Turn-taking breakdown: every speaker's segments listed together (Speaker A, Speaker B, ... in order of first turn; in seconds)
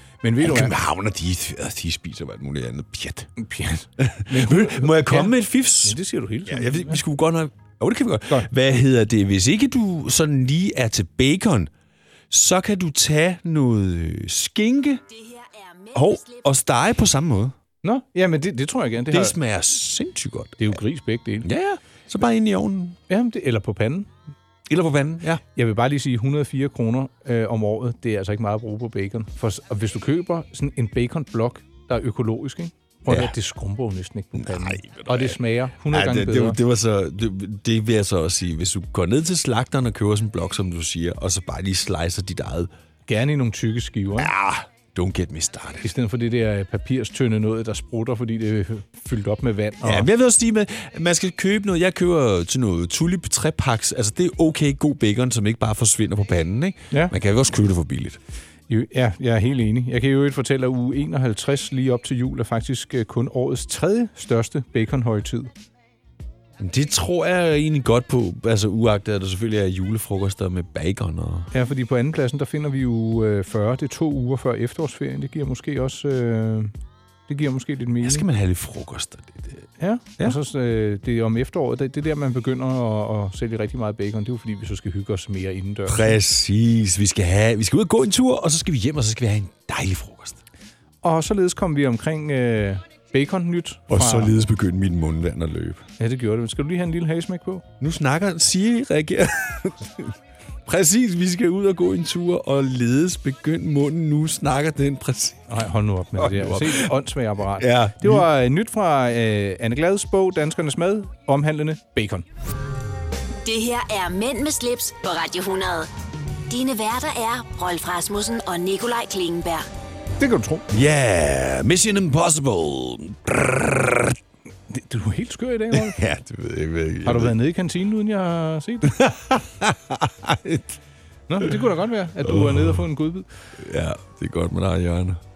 Speaker A: 0.2-0.7, 3.4-7.0, 17.8-19.3, 20.6-21.5, 23.1-24.1, 25.5-36.6, 43.1-44.3, 45.8-50.1, 58.7-65.5, 71.5-76.7, 77.3-78.2, 79.8-86.1, 91.0-94.4, 96.0-97.6, 105.5-112.2, 120.2-120.6, 124.7-126.0, 127.0-128.9, 131.3-133.3
Speaker B: 0.4-3.3, 4.0-11.7, 12.3-15.0, 15.9-17.5, 19.1-20.8, 21.4-23.0, 24.7-25.4, 33.1-33.3, 34.4-42.7, 44.2-45.9, 49.8-58.2, 66.6-71.5, 78.0-79.7, 85.9-90.4, 93.9-95.8, 97.8-100.1, 100.7-105.4, 106.2-106.9, 107.5-108.3, 120.7-124.2, 125.7-127.3, 128.8-130.8, 132.2-132.8, 133.6-135.2
Speaker C: 15.1-16.5, 113.4-115.9, 116.5-119.7